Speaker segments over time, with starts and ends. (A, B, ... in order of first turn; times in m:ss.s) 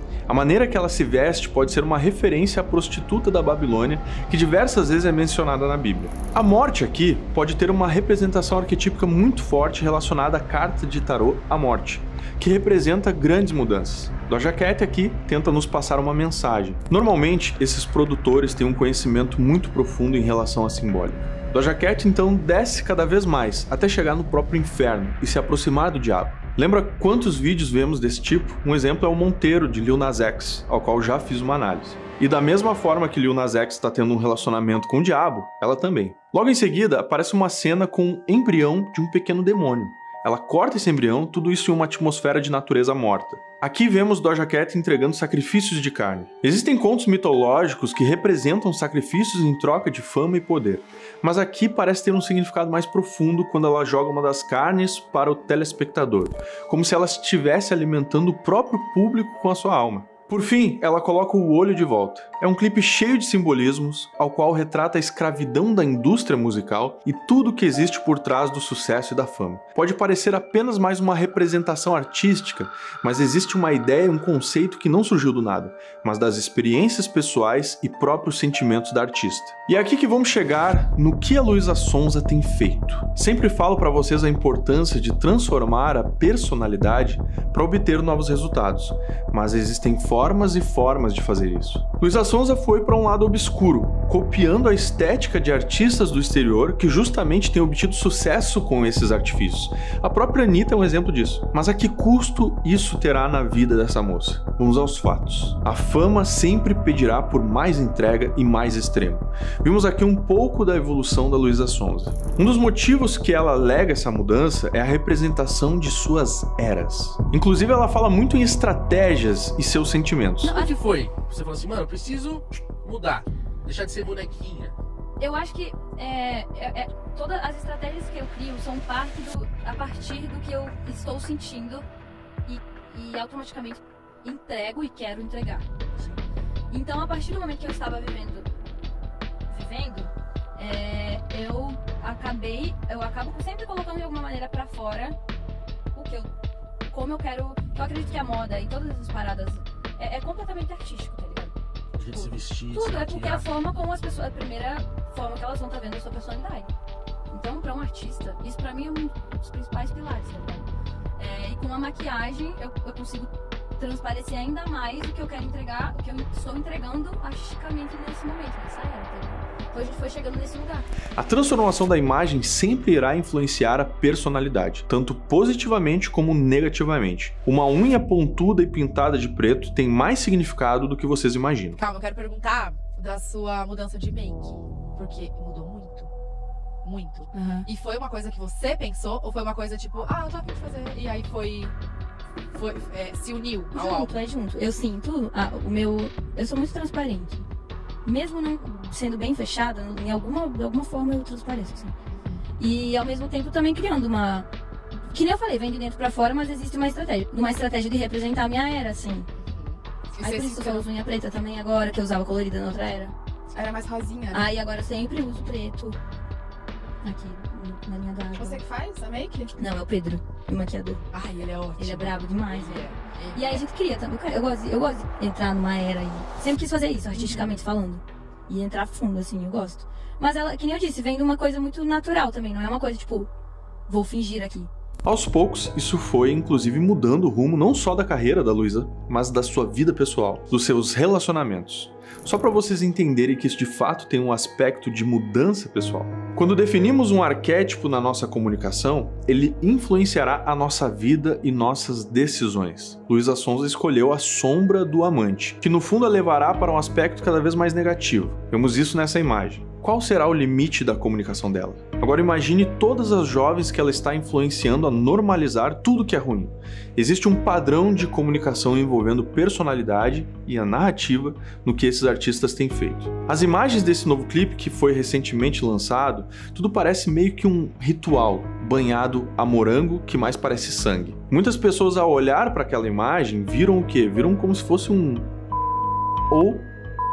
0:00.3-2:00.6 A
2:00.4-2:00.8 B
2:00.5-2:04.8 C
2:05.2-2:11.8 B
2:12.5-2:15.7 B
2:16.7-2:18.5 B
2:19.5-2:25.2 B
2:25.9-2:26.3 B
2:26.9-2:31.5 B
2:32.0-2:33.5 C
2:32.1-2:36.7 B
2:37.3-2:50.9 B
2:51.2-3:01.8 A
3:01.8-3:06.1 D
3:06.8-3:11.7 D
3:12.5-3:14.2 D
3:13.7-3:17.5 B
3:18.0-3:21.9 B
3:22.1-3:22.4 D
3:22.6-3:24.5 B
3:25.1-3:29.3 B
3:29.4-3:30.8 D
3:30.2-3:33.2 B
3:33.5-3:34.5 D
3:34.3-3:36.0 B
3:37.0-3:38.6 B
3:38.4-3:39.5 D
3:39.6-3:41.0 B
3:41.1-3:43.6 D
3:41.8-3:53.3 B
3:47.2-3:47.5 D
3:53.9-3:54.7 B
3:55.0-4:45.3 A
4:46.3-4:46.7 A